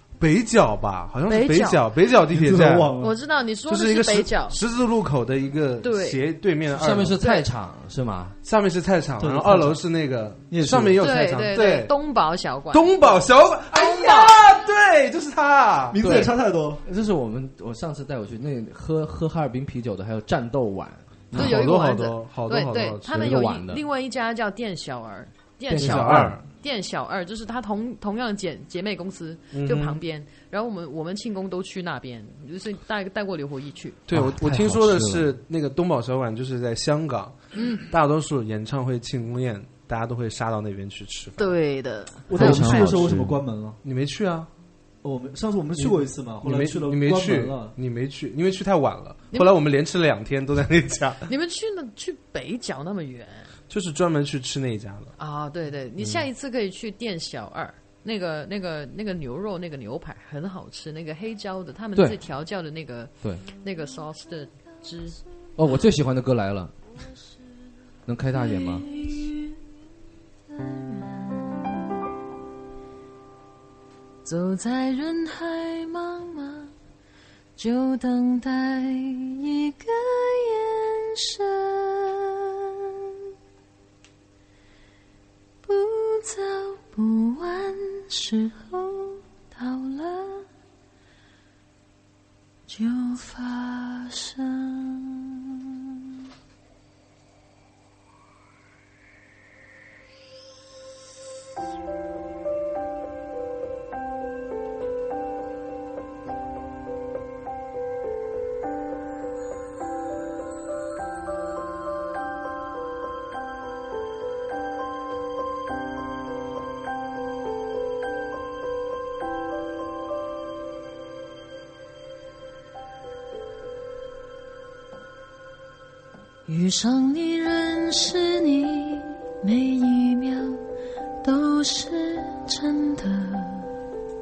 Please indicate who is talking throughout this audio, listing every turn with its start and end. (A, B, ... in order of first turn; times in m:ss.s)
0:00.2-0:02.9 A
0:01.3-0:01.8 B
0:02.3-0:03.2 C
0:03.0-0:04.6 B
0:03.7-0:07.2 A
0:05.8-0:06.2 B
0:06.7-0:08.4 D
0:08.4-0:11.9 A
0:09.2-0:09.8 C
0:10.5-0:11.0 C
0:11.0-0:14.4 B
0:12.7-0:16.0 A
0:15.9-0:16.8 C
0:16.0-0:16.3 D
0:16.8-0:21.6 D
0:21.3-0:23.3 A
0:21.3-0:34.0 B
0:23.1-0:23.8 D
0:25.7-0:26.4 D
0:25.7-0:26.4 A
0:29.5-0:30.0 A
0:34.1-0:41.5 A
0:34.1-0:35.3 D
0:37.5-0:37.8 B
0:41.4-0:43.1 B
0:42.3-0:43.8 C
0:42.3-0:43.4 D
0:43.8-0:44.5 A
0:45.0-0:47.7 C
0:45.8-0:51.3 A
0:51.3-0:53.5 B
0:53.7-0:55.1 A
0:55.2-1:05.2 B
0:56.0-0:56.2 A
1:05.6-1:06.7 D
1:08.0-1:08.8 D
1:08.3-1:09.6 E
1:10.5-1:11.9 E
1:14.2-1:16.7 E
1:17.6-1:23.1 E
1:25.6-1:30.5 E
1:32.7-1:35.6 E
2:06.5-2:10.6 E
2:11.2-2:13.7 E